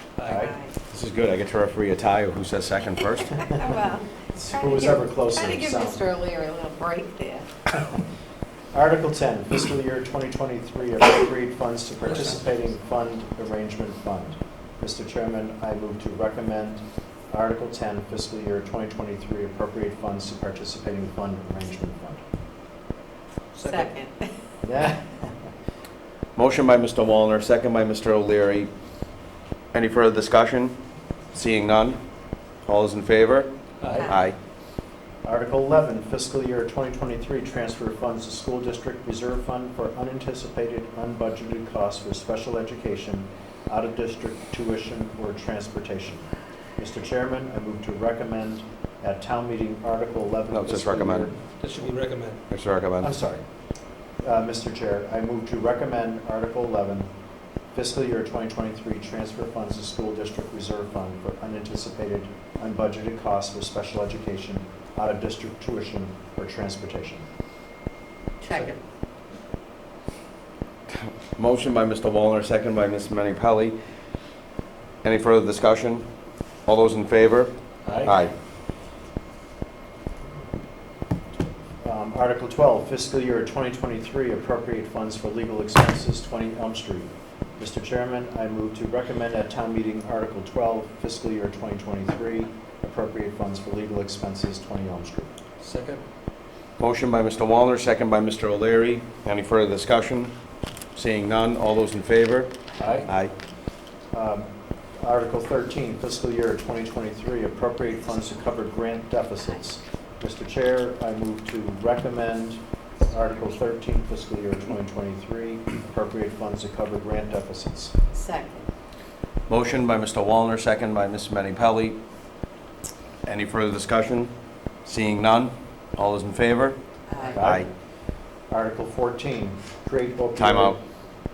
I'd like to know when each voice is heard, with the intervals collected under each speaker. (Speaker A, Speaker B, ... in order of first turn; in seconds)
Speaker A: 0.2-0.5, 12.1-12.4, 23.5-23.9, 33.8-34.1, 51.6-52.4, 77.8-78.2, 95.6-96.0, 102.8-103.1
Speaker B: 0.2-0.6, 4.3-6.0, 8.7-22.2, 24.6-25.3, 35.2-46.2, 46.8-51.9, 53.0-53.4, 54.2-57.1, 57.7-67.2, 81.8-95.3, 104.1-117.9, 127.3-127.7, 128.5-130.8
Speaker C: 0.4-0.7, 3.4-7.5, 23.6-24.3, 33.9-34.2, 68.4-68.8, 118.1-118.6, 127.1-127.4
Speaker D: 0.9-3.5, 26.4-28.7, 29.7-30.8, 31.3-32.0, 32.6-33.5, 34.1-34.4, 50.5-51.3, 52.5-53.1, 70.9-73.7, 75.0-76.0, 76.7-78.3, 96.8-100.3, 100.9-102.5, 103.0-103.3, 119.5-122.0, 123.2-124.3, 124.8-126.8, 127.4-127.7, 130.4-130.8